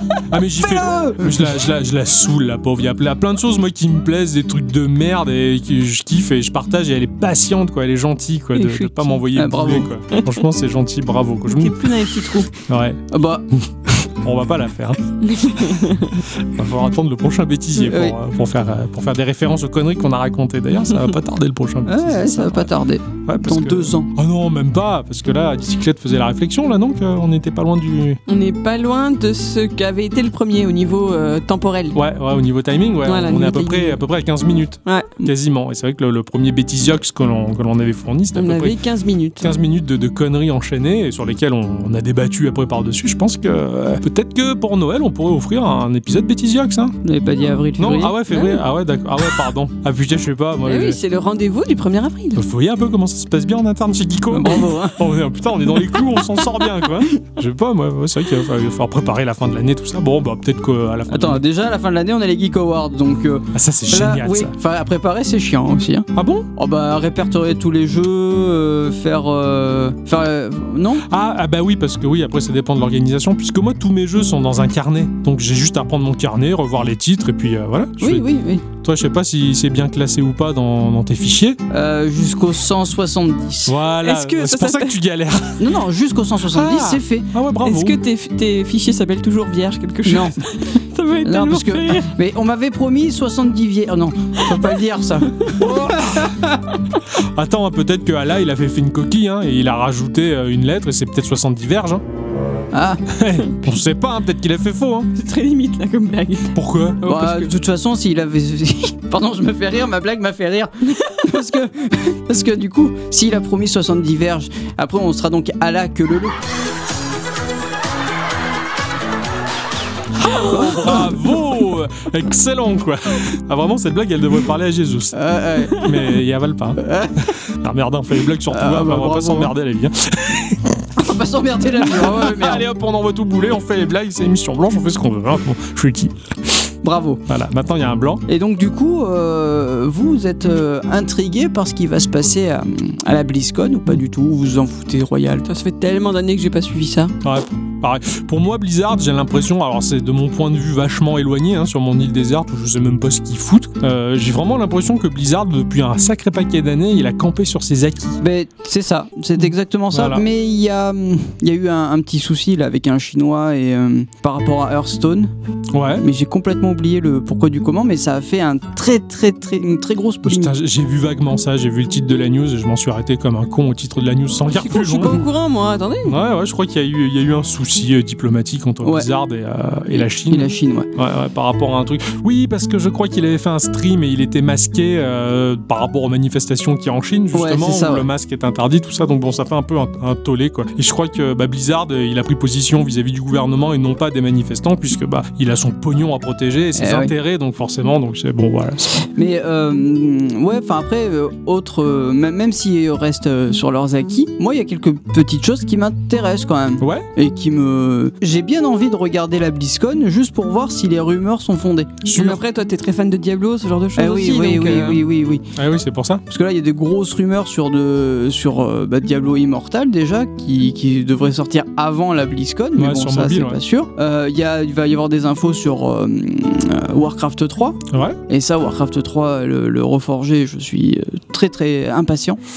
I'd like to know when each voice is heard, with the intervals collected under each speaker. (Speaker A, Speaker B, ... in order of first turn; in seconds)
Speaker A: 0.3-11.9, 12.7-13.0, 14.2-22.7, 23.2-28.2, 31.9-38.8, 39.4-47.0, 47.8-51.0, 52.4-61.4, 63.5-64.5, 66.1-66.5, 71.1-81.6, 83.7-85.7, 86.4-88.0, 95.5-96.3, 97.1-102.0, 103.1-105.1, 106.5-107.2, 120.2-130.9, 131.8-136.1, 137.3-138.2, 147.2-158.2, 159.9-160.2, 165.7-166.0, 170.2-175.2, 176.0-198.9, 206.8-207.1, 212.1-212.4, 215.5-216.2, 222.8-223.6, 227.9-228.2
Speaker B: 0.6-1.6, 9.3-9.9, 13.1-14.0, 17.7-18.1, 21.8-24.1, 47.0-48.2, 54.3-55.0, 61.1-71.0, 78.0-78.6, 81.7-83.8, 85.6-87.3, 90.0-90.4, 91.2-96.6, 102.7-103.0, 107.0-116.3, 120.5-121.1, 125.1-125.9, 126.8-127.2, 128.5-129.5, 131.0-132.6, 136.8-137.2, 138.3-145.4, 158.2-165.3, 166.0-170.5, 179.9-180.9, 187.3-188.1, 196.8-197.1, 199.1-212.3, 213.9-215.4, 216.3-232.4
Speaker C: 8.5-9.2, 11.5-12.5, 15.2-16.2, 28.3-32.0, 33.0-34.0, 34.9-35.2, 38.3-39.5, 48.3-48.6, 50.6-52.4, 84.0-85.0, 87.6-92.1, 105.1-107.5, 145.4-147.1, 174.5-176.2, 212.1-215.0